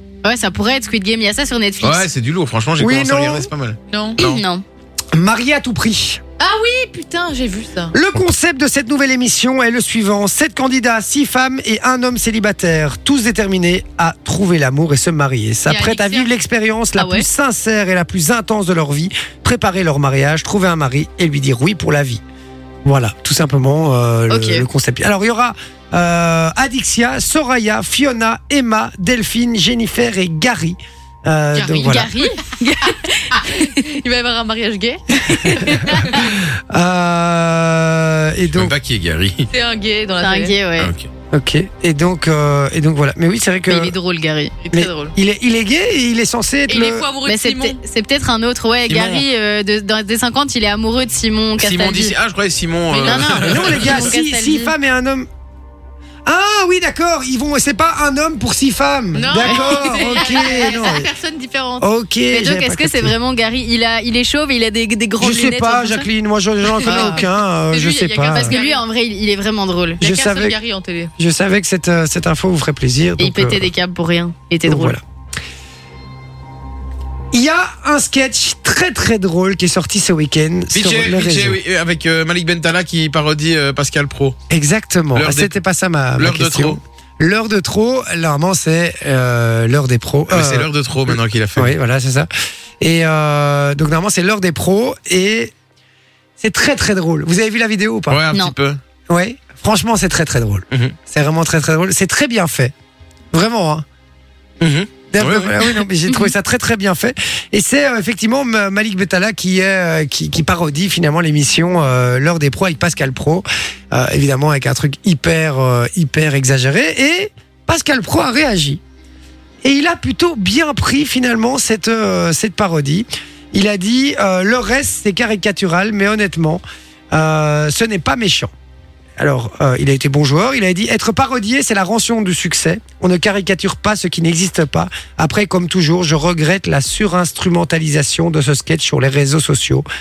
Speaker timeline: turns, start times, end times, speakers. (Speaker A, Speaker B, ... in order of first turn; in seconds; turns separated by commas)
Speaker A: 0.2-2.1, Speaker B: 1.8-4.4, Speaker C: 2.8-3.5, Speaker D: 3.9-4.2, Speaker A: 4.2-4.6, Speaker C: 5.1-6.2, Speaker D: 6.4-8.0, Speaker C: 7.9-22.2, Speaker D: 15.7-16.3, Speaker A: 17.0-17.2, Speaker C: 22.8-32.1, Speaker A: 24.3-24.6, Speaker D: 31.5-32.4, Speaker A: 31.6-33.8, Speaker D: 33.3-35.7, Speaker A: 35.2-36.2, Speaker C: 35.7-38.7, Speaker B: 38.5-39.5, Speaker D: 39.5-40.6, Speaker A: 40.2-40.9, Speaker B: 40.8-41.1, Speaker C: 41.3-43.9, Speaker A: 43.7-44.6, Speaker D: 44.6-45.1, Speaker C: 44.7-47.1, Speaker D: 46.7-47.8, Speaker A: 47.2-52.1, Speaker B: 48.9-49.2, Speaker B: 51.6-54.1, Speaker A: 52.9-54.7, Speaker C: 53.3-55.3, Speaker C: 56.2-61.1, Speaker D: 59.1-61.9, Speaker A: 59.4-60.7, Speaker C: 61.8-63.1, Speaker A: 62.3-66.1, Speaker C: 65.2-68.5, Speaker A: 66.7-67.2, Speaker D: 66.8-68.8, Speaker A: 68.3-70.0, Speaker C: 70.0-70.5, Speaker D: 70.0-71.1, Speaker C: 71.2-73.7, Speaker A: 73.2-75.0, Speaker C: 74.7-75.0, Speaker C: 77.3-81.6, Speaker B: 80.7-84.4, Speaker C: 84.5-92.3, Speaker B: 85.1-85.5, Speaker B: 86.2-86.8, Speaker B: 90.3-91.8, Speaker C: 92.8-95.5, Speaker C: 96.4-98.2, Speaker B: 98.1-98.8, Speaker C: 99.1-102.7, Speaker C: 103.3-103.8, Speaker B: 104.6-105.7, Speaker C: 105.1-118.8, Speaker C: 119.6-128.5, Speaker C: 129.2-139.8